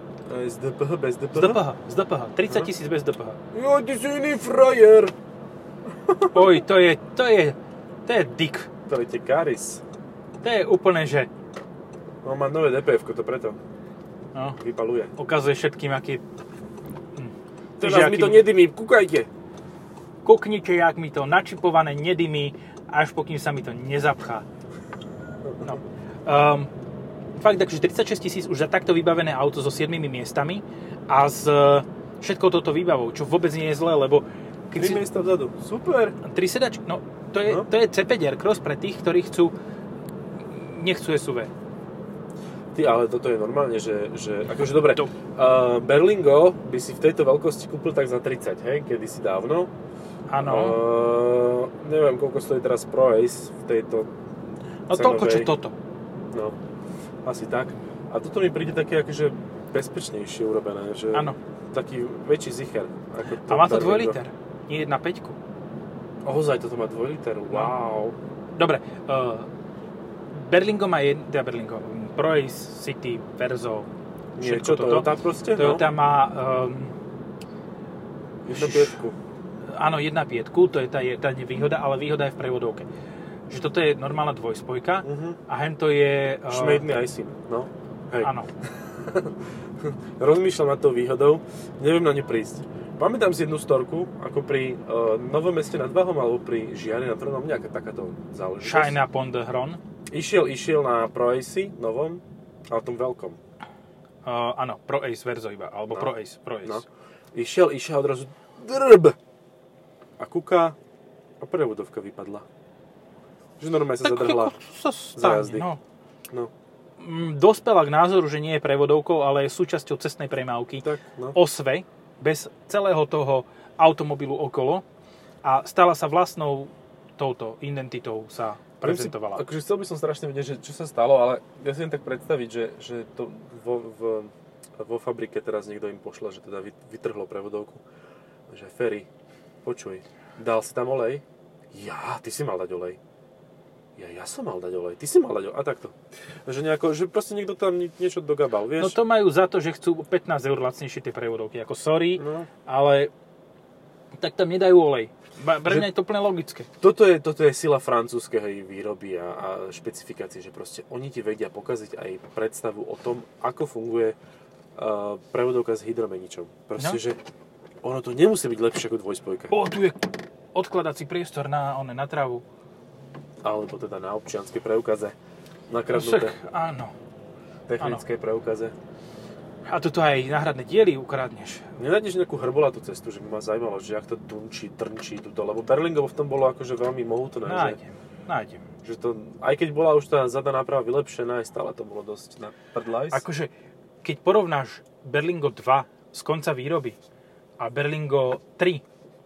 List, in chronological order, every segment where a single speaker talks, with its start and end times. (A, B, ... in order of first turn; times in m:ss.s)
0:00.3-0:01.6 A
0:01.3-0:03.4 B
0:03.5-0:05.1 A
0:06.1-0:06.6 A
0:06.3-0:08.7 B
0:08.9-0:09.8 A
0:10.4-0:11.3 B
0:12.2-0:13.6 A
0:14.6-0:15.1 A
0:15.2-0:16.2 B
0:17.2-0:18.5 B
0:17.8-0:19.3 A
0:20.2-0:24.4 B
0:25.6-0:26.7 B
0:27.4-0:35.0 B
0:34.8-0:36.2 A
0:36.2-0:39.5 B
0:40.4-0:41.5 B
0:42.7-0:49.7 A
0:44.9-0:45.1 B
0:50.3-0:50.8 B
0:50.4-0:54.1 A
0:54.9-0:55.8 B
0:54.9-0:55.5 A
0:56.3-0:56.6 A
0:57.2-1:04.2 A
1:01.1-1:01.4 B
1:03.5-1:05.4 B
1:06.2-1:08.2 A
1:08.6-1:09.5 B
1:10.3-1:13.9 B
1:14.4-1:15.8 A
1:14.4-1:17.0 B
1:18.4-1:19.2 A
1:18.6-1:19.0 B
1:19.7-1:22.9 B
1:23.5-1:26.8 B
1:25.0-1:25.4 A
1:26.5-1:39.0 A
1:28.2-1:28.5 B
1:38.6-1:39.8 B
1:40.1-1:43.4 A
1:44.2-1:46.8 B
1:46.6-1:49.2 A
1:50.2-1:50.8 A
1:51.4-1:52.4 A
1:53.6-1:54.6 A
1:54.0-1:55.8 B
1:55.2-1:55.7 A
1:57.0-2:04.8 B
2:00.8-2:01.4 A
2:05.4-2:09.4 B
2:08.8-2:17.8 A
2:18.5-2:19.1 A
2:19.6-2:23.0 A
2:24.0-2:29.0 A
2:28.8-2:33.1 B
2:32.2-2:32.5 A
2:34.1-2:36.7 B
2:36.8-2:44.2 A
2:44.8-2:47.2 A
2:47.8-2:49.6 A
2:49.5-2:52.4 B
2:53.4-2:55.2 A
2:55.7-2:56.4 A
2:55.9-2:56.9 B
2:57.7-2:58.8 A
2:59.7-3:01.7 B
3:01.8-3:07.8 A
3:07.4-3:08.6 B
3:08.8-3:13.2 A
3:13.1-3:13.5 B
3:14.0-3:17.0 B
3:17.6-3:18.8 B